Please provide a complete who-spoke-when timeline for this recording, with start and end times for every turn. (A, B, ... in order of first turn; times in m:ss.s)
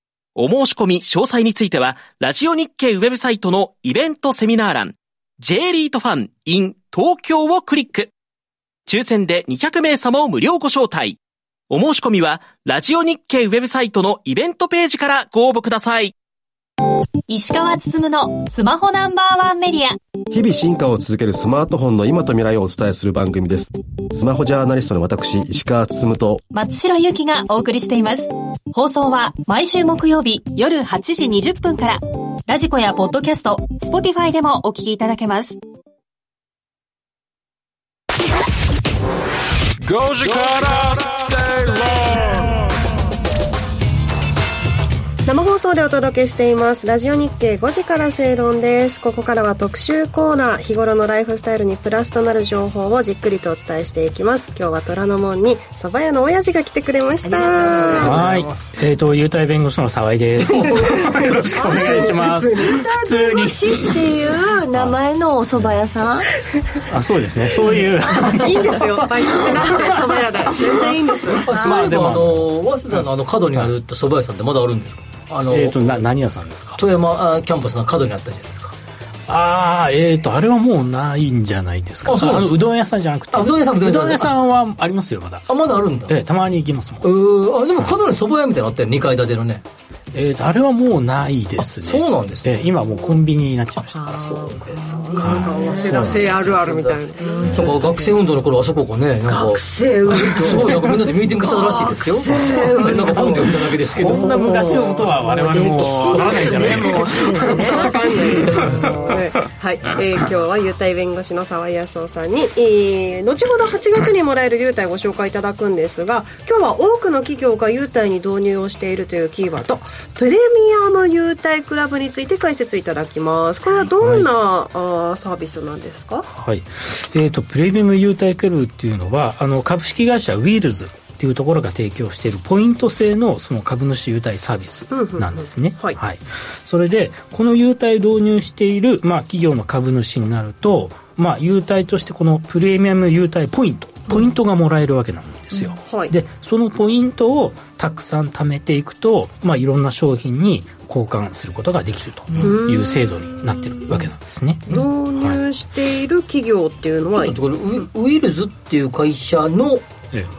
0:00.4-0:08.1 A
0:08.9-0:11.2 A
0:11.7-0:16.1 A
0:17.3-0:20.0 B
0:20.3-0:26.4 C
0:26.5-0:35.6 B
0:39.8-0:42.6 D
0:45.2-0:58.2 E
0:57.2-0:58.2 F
0:57.9-0:58.7 G
0:58.0-1:04.0 H
1:00.4-1:02.8 E
1:01.6-1:06.3 F
1:05.5-1:05.8 H
1:06.9-1:10.0 H
1:08.1-1:11.4 E
1:11.4-1:16.0 G
1:11.6-1:13.0 H
1:15.5-1:16.8 H
1:16.8-1:18.8 G
1:19.3-1:25.4 H
1:22.1-1:22.6 G
1:23.3-1:24.3 G
1:25.5-1:26.2 G
1:26.1-1:27.1 H
1:27.0-1:29.6 G
1:30.1-1:34.2 H
1:31.6-1:32.7 G
1:34.0-1:36.5 F
1:34.0-1:37.0 G
1:34.9-1:37.6 E
1:35.2-1:36.2 H
1:37.2-1:38.2 F
1:37.5-1:44.5 G
1:39.2-1:49.1 F
1:42.3-1:43.6 E
1:43.9-1:48.7 H
1:45.8-1:47.0 G
1:46.1-2:06.3 E
2:04.0-2:04.3 H
2:06.3-2:34.7 H
2:14.9-2:16.0 E
2:25.9-2:26.1 E
2:32.4-2:33.8 E
2:34.7-2:37.3 E
2:37.1-2:39.8 G